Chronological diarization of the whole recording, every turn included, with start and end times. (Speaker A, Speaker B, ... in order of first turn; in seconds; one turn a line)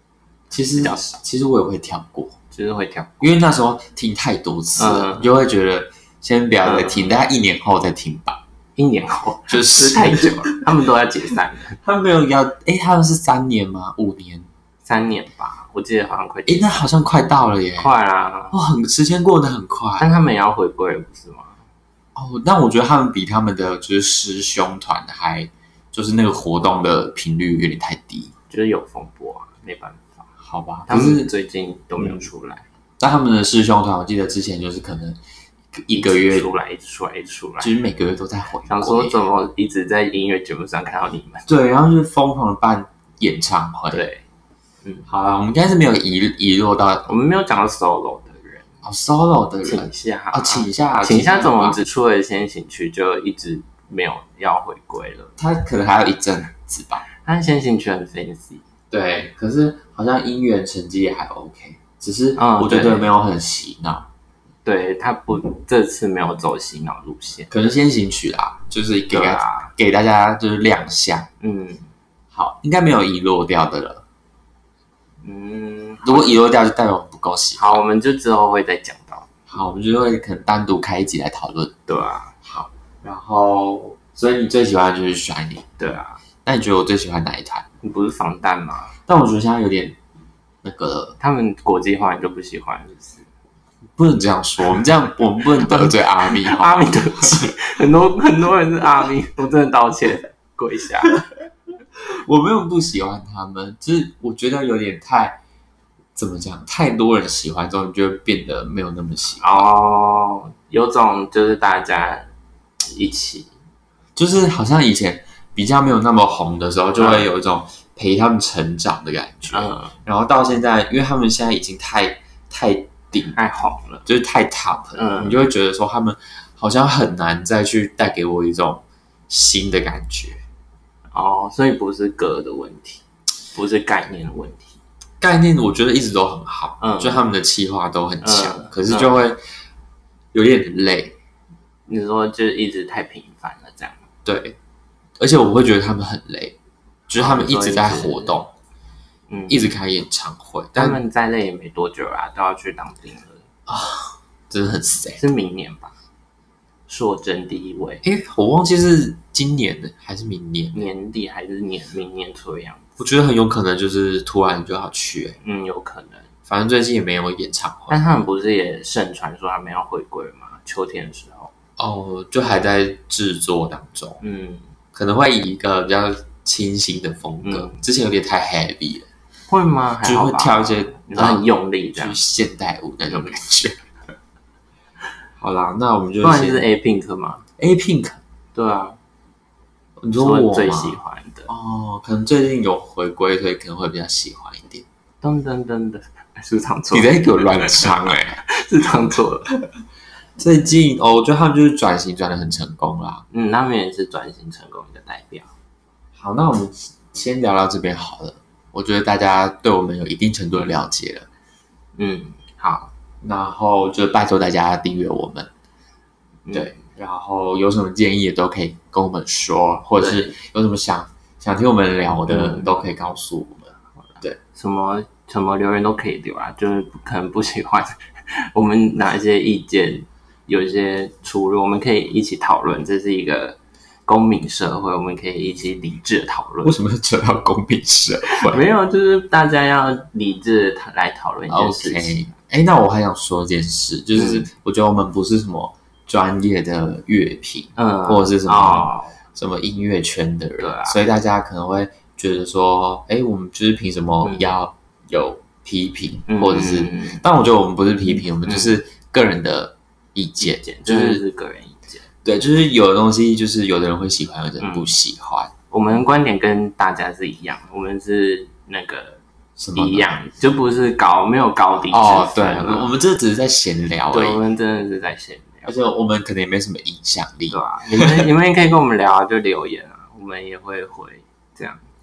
Speaker A: 0.5-2.4
Speaker B: 0.8-1.1
Speaker B: 2.5-3.4
Speaker A: 3.2-8.4
Speaker B: 4.8-5.3
Speaker B: 6.6-7.1
Speaker B: 8.8-11.8
Speaker A: 9.5-10.6
Speaker A: 11.8-14.5
Speaker B: 14.8-16.9
Speaker A: 16.5-17.9
Speaker B: 17.8-18.6
Speaker A: 18.5-20.1
Speaker B: 20.0-21.6
Speaker A: 22.1-28.3
Speaker B: 28.5-30.2
Speaker A: 30.4-31.3
Speaker B: 30.9-32.6
Speaker A: 32.0-32.3
Speaker A: 33.0-35.2
Speaker A: 35.8-36.5
Speaker B: 35.9-37.7
Speaker A: 37.6-39.2
Speaker B: 38.6-41.5
Speaker A: 41.5-44.0
Speaker B: 43.9-44.2
Speaker A: 45.1-47.1
Speaker B: 47.0-48.6
Speaker A: 48.8-51.8
Speaker B: 49.6-55.3
Speaker A: 55.4-57.0
Speaker B: 57.2-58.6
Speaker A: 58.9-64.1
Speaker B: 62.4-63.1
Speaker B: 64.6-67.5
Speaker A: 67.5-71.3
Speaker B: 69.1-69.7
Speaker B: 71.4-71.9
Speaker A: 72.3-74.0
Speaker B: 75.2-76.4
Speaker A: 76.0-77.8
Speaker B: 77.5-79.3
Speaker A: 79.5-81.7
Speaker B: 81.9-82.3
Speaker A: 82.4-85.7
Speaker B: 85.8-86.2
Speaker A: 86.4-87.7
Speaker B: 87.8-88.9
Speaker A: 89.1-90.0
Speaker A: 90.6-91.2
Speaker B: 91.2-93.2
Speaker A: 94.0-97.5
Speaker B: 95.6-101.2
Speaker A: 102.1-105.4
Speaker A: 106.2-109.7
Speaker B: 109.4-112.3
Speaker B: 112.9-113.5
Speaker A: 114.2-123.4
Speaker B: 117.0-117.3
Speaker B: 119.5-119.9
Speaker B: 123.3-124.0
Speaker A: 124.0-130.4
Speaker B: 124.9-125.4
Speaker B: 131.1-134.8
Speaker A: 135.2-139.4
Speaker B: 136.8-137.2
Speaker B: 138.2-139.2
Speaker A: 140.3-141.2
Speaker B: 141.9-144.0
Speaker A: 144.2-144.6
Speaker A: 145.2-146.6
Speaker A: 147.1-148.5
Speaker B: 147.1-148.4
Speaker B: 149.3-149.7
Speaker A: 149.5-151.0
Speaker B: 150.7-153.4
Speaker A: 153.7-155.2
Speaker B: 155.2-155.9
Speaker B: 156.9-158.0
Speaker A: 158.0-160.9
Speaker B: 160.7-162.8
Speaker A: 163.0-165.4
Speaker B: 165.4-166.3
Speaker A: 166.5-168.0
Speaker B: 167.9-171.5
Speaker A: 171.8-174.2
Speaker B: 174.2-174.7
Speaker A: 174.9-179.1
Speaker B: 177.4-177.8
Speaker B: 179.5-182.2
Speaker A: 180.0-183.8
Speaker B: 183.1-183.4
Speaker A: 185.4-186.7
Speaker B: 186.2-187.4
Speaker A: 187.6-188.2
Speaker B: 188.5-189.0
Speaker A: 190.0-194.8
Speaker B: 190.2-191.5
Speaker B: 195.2-199.5
Speaker A: 196.9-198.4
Speaker A: 200.4-203.2
Speaker B: 203.3-205.5
Speaker A: 206.1-211.3
Speaker B: 211.9-212.9
Speaker A: 213.2-215.5
Speaker B: 216.4-216.8
Speaker A: 216.5-224.4
Speaker B: 220.0-220.3
Speaker B: 222.1-222.7
Speaker B: 224.5-236.7
Speaker A: 236.6-238.6
Speaker B: 238.3-242.3
Speaker A: 241.5-261.2
Speaker B: 244.1-244.5
Speaker B: 247.8-249.2
Speaker B: 250.6-251.0
Speaker B: 254.2-254.6
Speaker B: 256.3-257.2
Speaker B: 258.4-258.8
Speaker B: 260.4-262.0
Speaker A: 262.2-265.5
Speaker B: 264.6-264.9
Speaker B: 265.7-269.2
Speaker A: 269.6-270.1
Speaker B: 269.7-272.9
Speaker A: 271.9-274.4
Speaker B: 274.1-275.7
Speaker A: 275.6-278.3
Speaker B: 277.5-281.8